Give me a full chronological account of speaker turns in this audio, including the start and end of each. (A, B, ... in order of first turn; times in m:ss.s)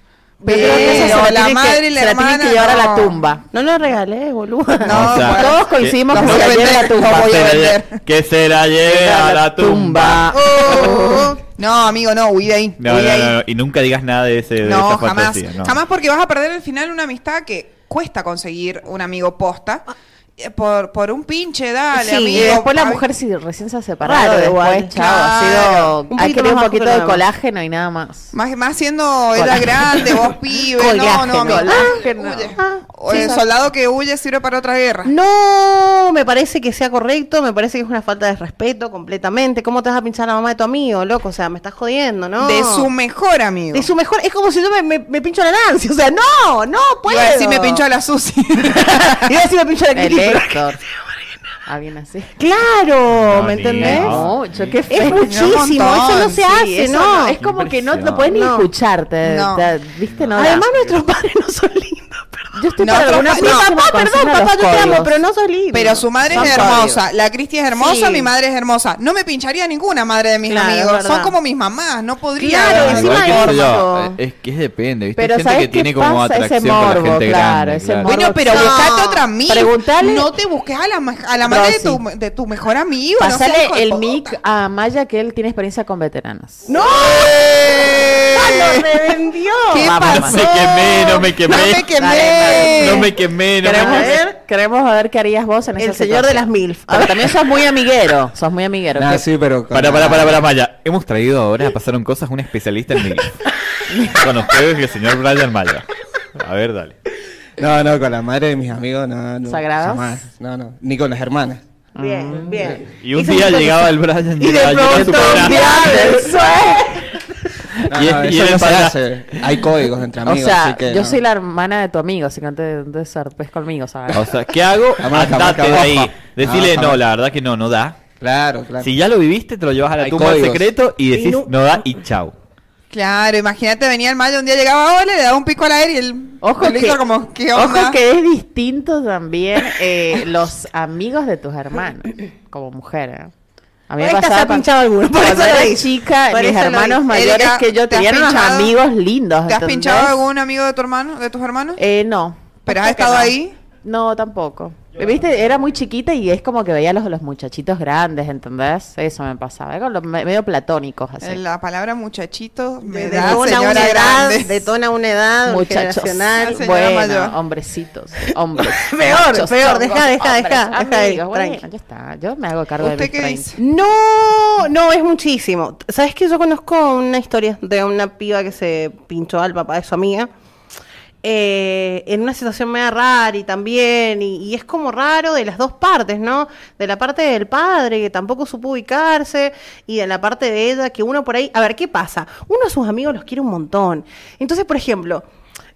0:00.4-0:03.2 A
0:00.4-0:03.4 B
0:00.4-0:01.3 C
0:03.5-0:05.2 C
0:04.8-0:08.0 A
0:04.8-0:10.4 D
0:05.2-0:07.6 B
0:08.8-0:11.2 B
0:10.4-0:11.4 C
0:10.4-0:13.4 A
0:12.8-0:15.8 D
0:14.6-0:19.8 A
0:20.4-0:23.0 A
0:21.9-0:22.6 C
0:22.3-0:28.3 B
0:24.0-0:25.0 C
0:25.0-0:25.9 A
0:26.1-0:27.2 C
0:28.3-0:35.1 A
0:29.4-0:30.1 B
0:30.7-0:32.0 C
0:31.4-0:33.4 B
0:32.6-0:33.3 C
0:35.0-0:42.9 C
0:42.4-0:43.9 A
0:43.7-0:47.8 C
0:47.0-0:49.3 A
0:48.7-0:50.6 C
0:49.9-0:50.8 B
0:51.6-0:52.3 B
0:52.4-0:54.2 C
0:53.1-0:54.8 D
0:53.8-0:55.8 B
0:54.9-0:57.4 C
0:55.2-0:56.4 A
0:56.4-1:00.6 B
0:57.4-0:58.4 D
0:58.3-0:58.7 C
0:59.2-0:59.6 A
1:00.1-1:00.9 D
1:00.3-1:06.8 C
1:02.5-1:05.2 B
1:02.8-1:03.7 A
1:05.7-1:13.7 A
1:06.3-1:06.8 B
1:06.3-1:06.8 D
1:07.8-1:08.3 C
1:10.5-1:11.3 C
1:12.4-1:14.2 C
1:12.6-1:18.1 D
1:15.2-1:18.9 B
1:18.0-1:24.4 A
1:18.5-1:19.2 C
1:19.5-1:20.3 B
1:21.4-1:22.0 B
1:23.2-1:26.7 B
1:26.7-1:31.2 C
1:26.8-1:28.7 A
1:29.7-1:33.1 A
1:29.8-1:30.4 B
1:30.0-1:34.1 D
1:32.1-1:32.8 B
1:32.1-1:33.1 C
1:33.6-1:39.2 B
1:33.6-1:34.4 C
1:35.8-1:37.4 C
1:39.0-1:40.4 E
1:39.7-1:43.4 D
1:43.9-1:44.2 B
1:44.1-1:47.0 D
1:47.6-1:51.6 E
1:49.4-1:50.2 B
1:51.9-1:52.7 B
1:52.0-1:53.9 C
1:53.0-1:56.1 D
1:54.4-1:56.7 C
1:54.8-1:57.0 B
1:57.9-2:01.2 E
1:57.9-1:59.7 D
2:00.2-2:04.3 B
2:04.1-2:08.0 D
2:05.0-2:07.0 E
2:08.2-2:08.9 E
2:08.8-2:12.3 D
2:10.0-2:10.7 E
2:11.1-2:11.5 C
2:12.9-2:18.0 A
2:16.4-2:17.0 B
2:17.5-2:23.3 B
2:23.9-2:30.2 B
2:24.0-2:27.0 C
2:27.1-2:28.8 A
2:29.5-2:31.8 A
2:31.8-2:41.4 B
2:32.6-2:33.5 A
2:41.2-2:44.7 A
2:42.8-2:46.7 C
2:45.4-2:53.5 B
2:46.4-2:47.4 A
2:48.7-2:51.6 C
2:52.8-2:53.6 A
2:53.6-3:00.3 C
3:01.2-3:15.2 C